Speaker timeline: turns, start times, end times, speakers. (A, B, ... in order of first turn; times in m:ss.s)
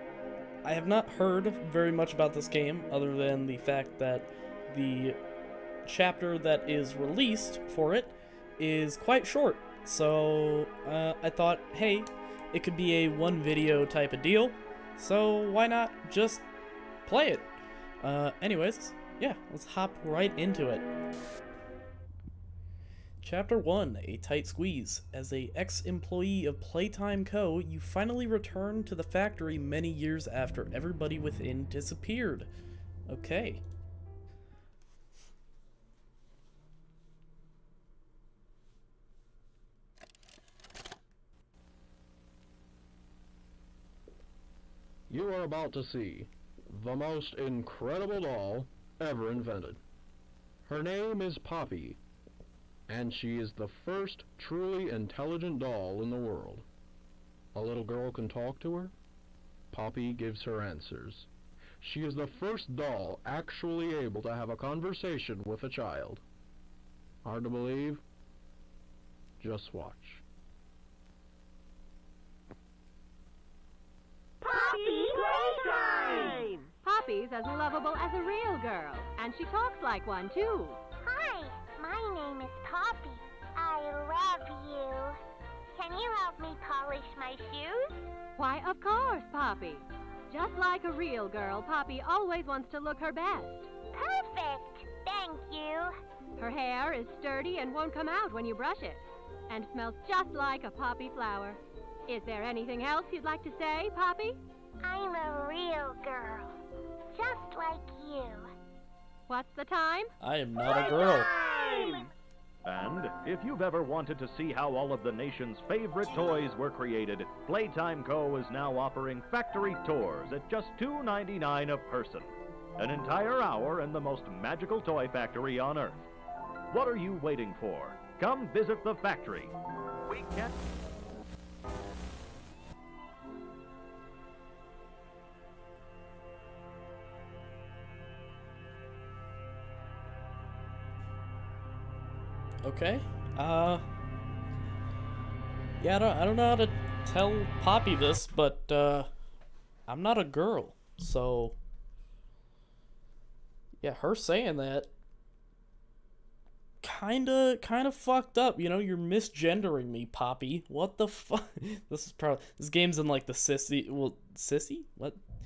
0:00.6-0:05.2 A
0:05.8-0:16.4 A
0:17.0-0:20.9 A
0:23.2-0:32.5 A
0:33.1-0:33.6 A
0:45.1-0:49.8 B
0:50.7-0:52.0 B
0:52.9-0:56.7 B
0:57.5-0:58.9 B
0:59.7-1:01.3 B
1:01.8-1:06.2 B
1:07.2-1:08.0 B
1:09.4-1:10.2 B
1:14.4-1:16.6 C
1:16.8-1:20.8 D
1:21.0-1:25.2 C
1:25.7-1:28.1 C
1:28.4-1:33.7 D
1:33.9-1:35.9 C
1:36.4-1:44.4 D
1:44.8-1:46.6 C
1:47.1-1:48.5 C
1:49.3-1:50.1 D
1:50.2-1:51.3 A
1:51.4-1:51.9 C
1:51.6-1:52.1 E
1:52.6-2:06.0 E
2:06.7-2:09.5 E
2:10.0-2:10.5 E
2:22.6-2:23.8 A
2:25.8-2:29.1 A
2:29.9-2:31.6 A
2:33.8-2:34.9 A
2:36.8-2:45.2 A